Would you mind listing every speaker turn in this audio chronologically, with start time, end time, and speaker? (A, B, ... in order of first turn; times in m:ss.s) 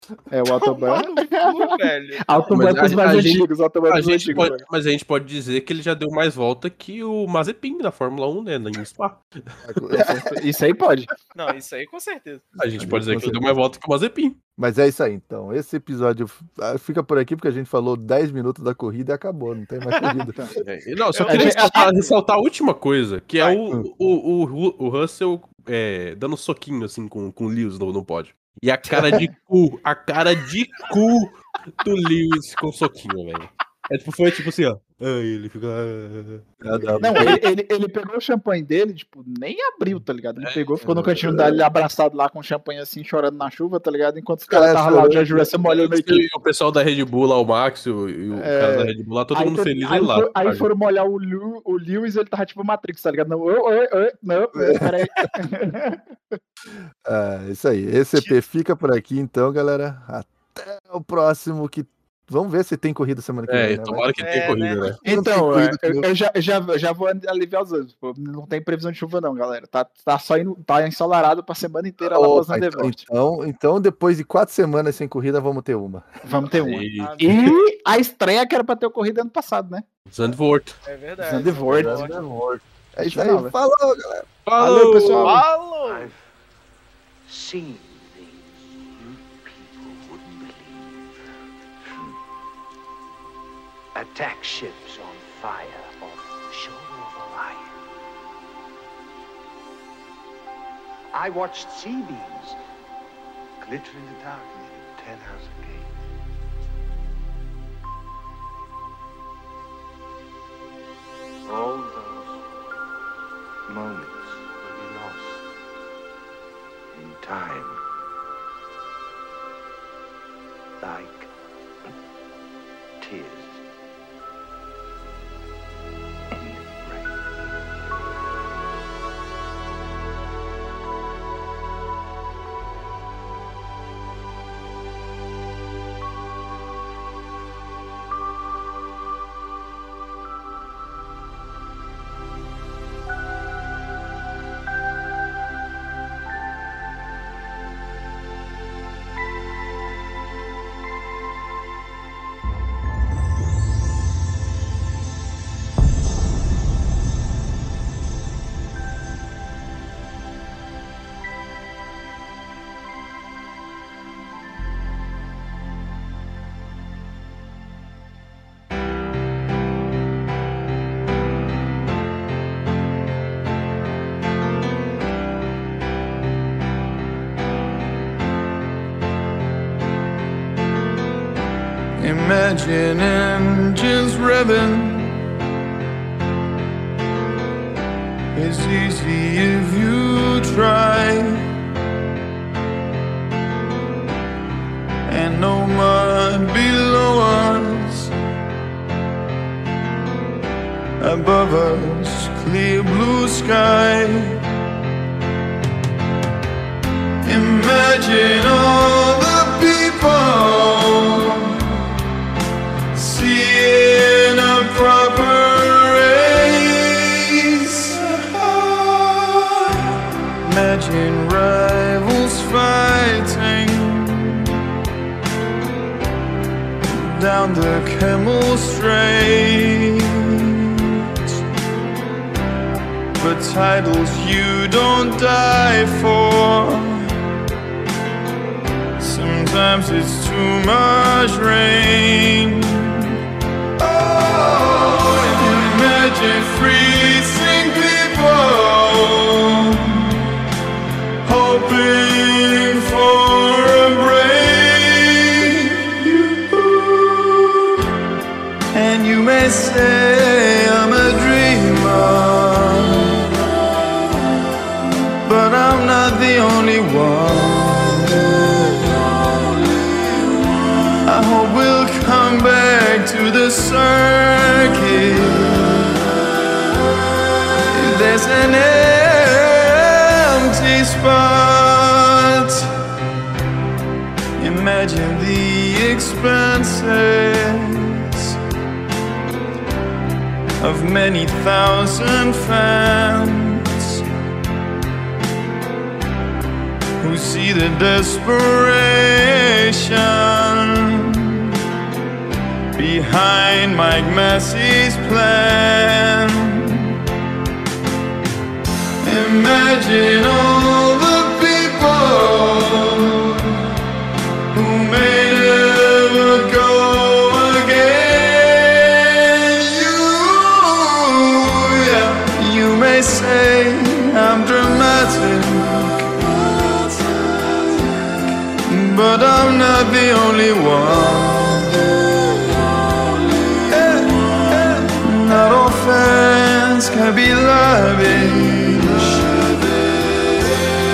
0:00.3-0:04.6 A
0:00.5-0:02.5 B
0:02.5-0:09.6 C
0:02.6-0:03.0 D
0:09.6-0:10.4 D
0:09.9-0:11.1 A
0:11.3-0:12.4 B
0:12.6-0:14.4 C
0:12.8-0:13.5 D
0:14.6-0:20.5 D
0:19.9-0:20.2 B
0:20.6-0:36.4 C
0:21.1-0:21.9 B
0:21.3-0:22.1 A
0:36.6-0:37.4 D
0:37.0-0:46.2 A
0:40.4-0:41.2 C
0:40.8-0:41.6 D
0:44.5-0:45.5 D
0:45.6-0:50.7 C
0:48.3-0:56.4 A
0:54.6-0:55.3 D
0:57.0-1:04.1 D
1:03.5-1:05.0 C
1:04.2-1:05.0 B
1:05.0-1:06.1 D
1:05.0-1:13.0 A
1:12.0-1:16.5 D
1:16.2-1:19.8 A
1:16.6-1:17.5 C
1:17.0-1:17.8 B
1:20.1-1:20.8 C
1:20.8-1:22.1 B
1:21.2-1:22.0 A
1:21.7-1:24.3 D
1:23.0-1:23.5 A
1:24.4-1:25.4 C
1:24.6-1:25.4 A
1:25.2-1:26.1 B
1:25.8-1:26.2 E
1:27.3-1:31.0 E
1:33.9-1:37.8 E
1:41.1-1:42.6 E
1:43.6-1:45.9 E
1:51.4-1:52.4 E
1:53.7-1:55.4 E
1:56.9-1:57.8 E
2:00.8-2:01.3 E
2:03.0-2:03.6 E
2:06.4-2:07.1 E
3:02.0-3:05.2 F
3:08.3-3:11.4 F
3:15.1-3:18.1 F
3:21.0-3:24.4 F
3:27.2-3:31.8 F
3:32.9-3:39.5 F
3:40.4-3:44.4 F
3:46.9-3:50.0 F
3:53.2-3:57.0 F
3:59.0-4:03.1 F
4:03.8-4:10.2 F
4:11.2-4:17.5 F
4:18.7-4:23.3 F
4:25.2-4:28.8 F
4:31.0-4:35.9 F
4:37.7-4:42.7 F
4:44.4-4:48.3 F
4:50.6-4:54.0 F
4:57.0-5:01.4 F
5:02.8-5:06.9 F
5:09.0-5:13.5 F
5:14.5-5:31.9 F
5:33.6-5:40.4 F